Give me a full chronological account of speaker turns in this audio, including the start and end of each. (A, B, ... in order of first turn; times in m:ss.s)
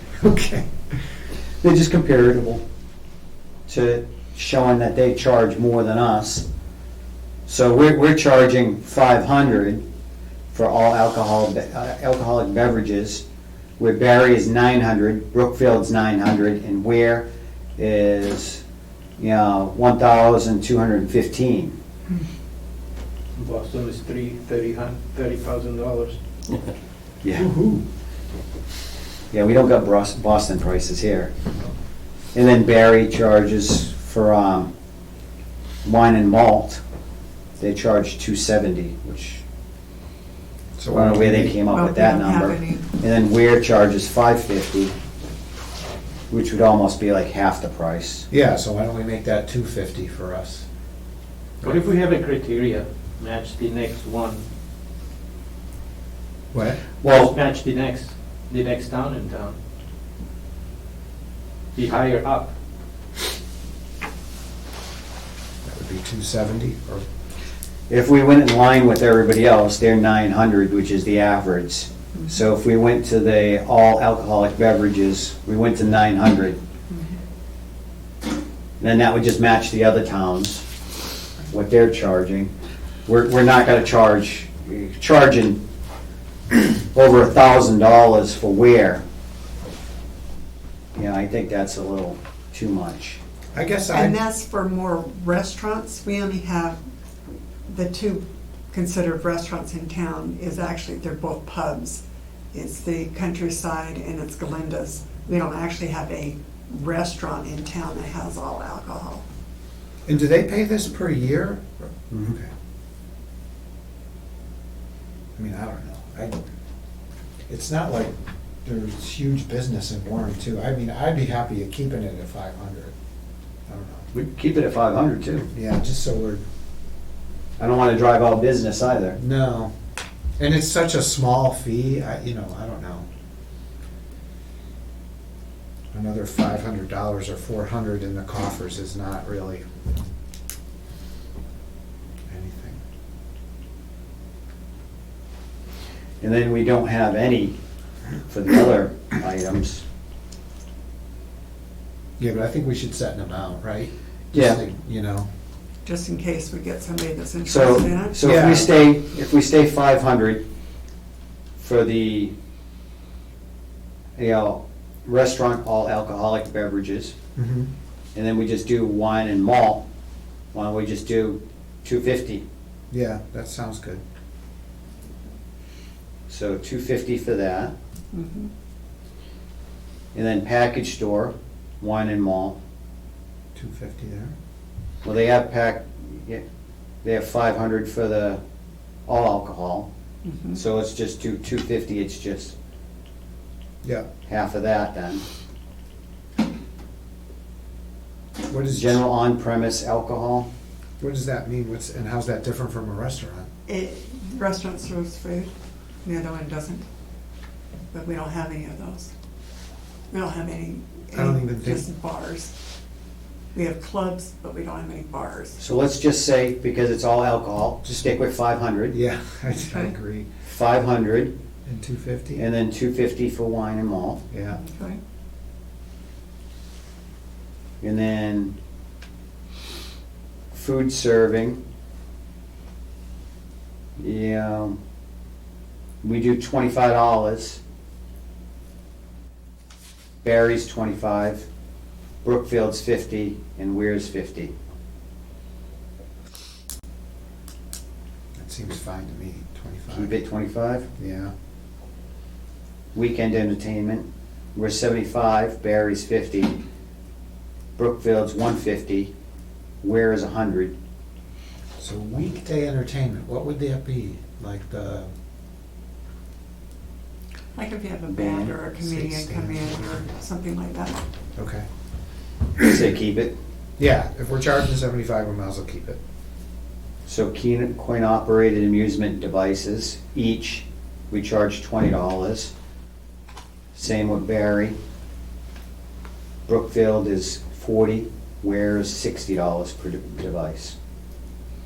0:00.1-0:01.0 A
0:01.6-0:02.6 B
0:03.7-0:06.4 B
0:07.5-0:09.8 B
0:10.5-0:13.2 B
0:13.8-0:18.6 B
0:19.2-0:21.7 B
0:23.4-0:26.2 C
0:27.3-0:27.8 A
0:29.3-0:31.3 B
0:32.3-0:34.7 B
0:35.8-0:36.8 B
0:37.6-0:39.4 B
0:40.8-0:41.6 A
0:40.9-0:44.9 B
0:41.7-0:42.9 D
0:46.3-0:48.3 B
0:48.3-0:50.7 A
0:51.6-0:54.4 C
0:56.5-0:56.8 A
0:57.0-0:57.3 B
0:57.0-0:59.6 C
1:01.8-1:02.5 C
1:05.6-1:07.1 A
1:07.9-1:16.6 B
1:18.8-1:20.7 B
1:21.5-1:22.5 B
1:23.1-1:25.6 B
1:26.5-1:29.0 B
1:31.0-1:33.2 B
1:33.6-1:34.2 A
1:33.9-1:36.8 D
1:37.7-1:42.0 D
1:42.5-1:49.2 D
1:50.1-1:52.5 A
1:55.4-1:56.4 A
1:57.5-1:58.1 A
1:58.6-2:02.9 A
2:03.7-2:04.1 A
2:04.1-2:05.5 B
2:05.5-2:06.4 A
2:07.6-2:09.2 B
2:09.2-2:09.7 A
2:10.4-2:13.1 A
2:15.9-2:19.6 A
2:22.3-2:22.8 A
2:26.2-2:27.6 B
2:28.3-2:29.8 B
2:32.2-2:35.3 A
2:34.3-2:34.6 B
2:35.8-2:38.2 D
2:37.4-2:40.4 B
2:38.2-2:38.7 A
2:41.6-2:42.3 B
2:44.2-2:47.2 B
2:47.4-2:47.7 A
2:48.2-2:49.8 B
2:50.5-2:52.4 B
2:52.9-2:54.0 A
2:56.3-2:57.7 B
2:58.1-2:58.5 D
3:00.1-3:02.6 B
3:03.6-3:04.4 A
3:05.0-3:06.4 B
3:07.0-3:08.4 B
3:09.1-3:09.9 B
3:10.2-3:10.6 D
3:10.5-3:12.5 B
3:14.3-3:15.2 B
3:18.5-3:19.0 A
3:18.7-3:20.5 B
3:21.0-3:23.5 A
3:23.7-3:25.5 D
3:26.0-3:26.9 D
3:27.9-3:29.1 D
3:30.1-3:32.5 D
3:31.1-3:31.8 A
3:33.5-3:35.6 D
3:35.6-3:39.0 B
3:38.9-3:40.3 A
3:39.5-3:39.9 D
3:40.4-3:41.3 B
3:41.7-3:42.4 A
3:42.4-3:44.2 B
3:44.3-3:44.6 A
3:44.5-3:45.0 D
3:47.8-3:48.5 B
3:50.5-3:51.6 B
3:54.0-3:54.8 B
3:56.0-3:57.6 B
4:00.2-4:01.5 B
4:02.2-4:04.5 B
4:08.4-4:10.2 A
4:09.9-4:10.9 B
4:11.0-4:11.3 A
4:13.0-4:16.6 B
4:17.8-4:19.1 B
4:19.8-4:20.7 B
4:21.8-4:25.1 A
4:27.6-4:31.0 D
4:28.1-4:28.5 B
4:28.8-4:30.0 A
4:31.4-4:31.7 A
4:32.6-4:33.3 B
4:33.8-4:36.0 A
4:37.1-4:42.5 B
4:43.8-4:44.8 B
4:46.5-4:50.8 B